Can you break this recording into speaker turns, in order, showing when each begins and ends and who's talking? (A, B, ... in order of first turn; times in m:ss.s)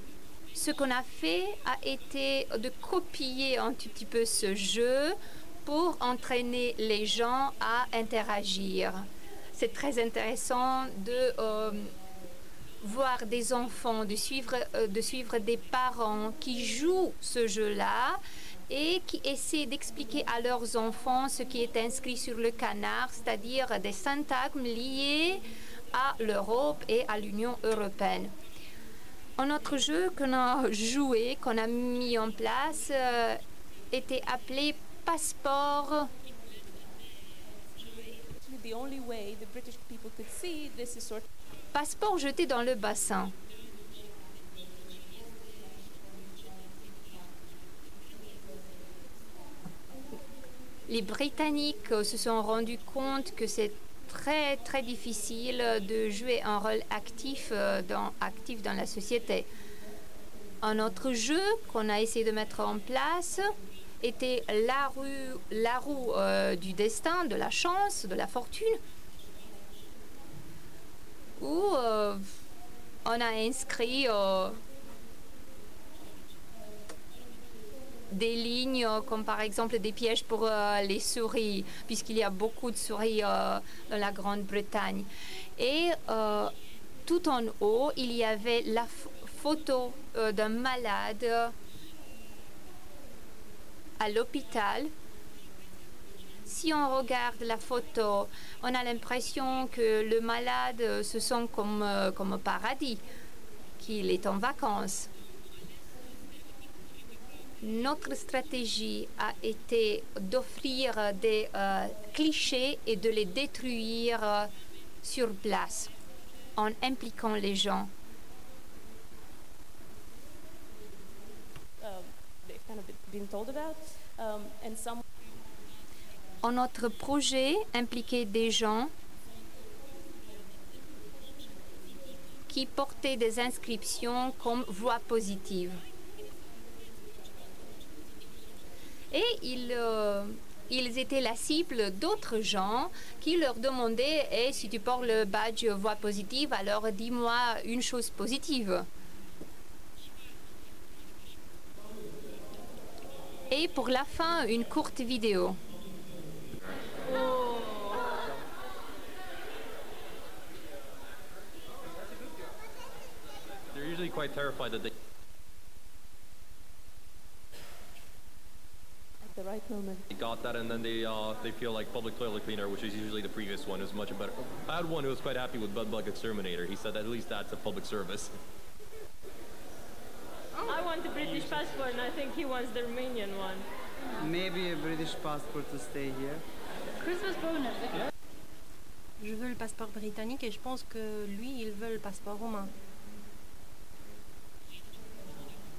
0:00.5-0:11.9 A
0:12.8-0:28.3 A
0:29.4-0:33.4 A
0:33.9-0:36.1 A
0:38.3-0:41.2 B
0:41.7-0:43.3 A
0:50.9-0:59.5 A
1:00.6-1:03.4 A
1:04.0-1:08.8 A
1:11.4-1:12.3 A
1:13.0-1:14.6 A
1:18.1-1:26.5 A
1:27.0-1:31.5 A
1:34.0-1:34.9 A
1:36.4-1:43.0 A
1:43.8-1:45.1 A
1:47.6-1:54.5 A
1:55.0-1:55.9 A
1:56.6-1:57.9 A
2:01.8-2:05.0 B
2:06.4-2:08.9 A
2:12.5-2:15.8 A
2:19.1-2:28.9 A
2:33.5-2:35.6 A
2:37.1-2:38.1 C
2:43.7-2:44.9 D
2:49.2-2:50.0 B
2:50.1-2:58.3 D
3:00.6-3:03.7 E
3:04.2-3:06.4 F
3:07.0-3:08.0 E
3:09.2-3:12.7 C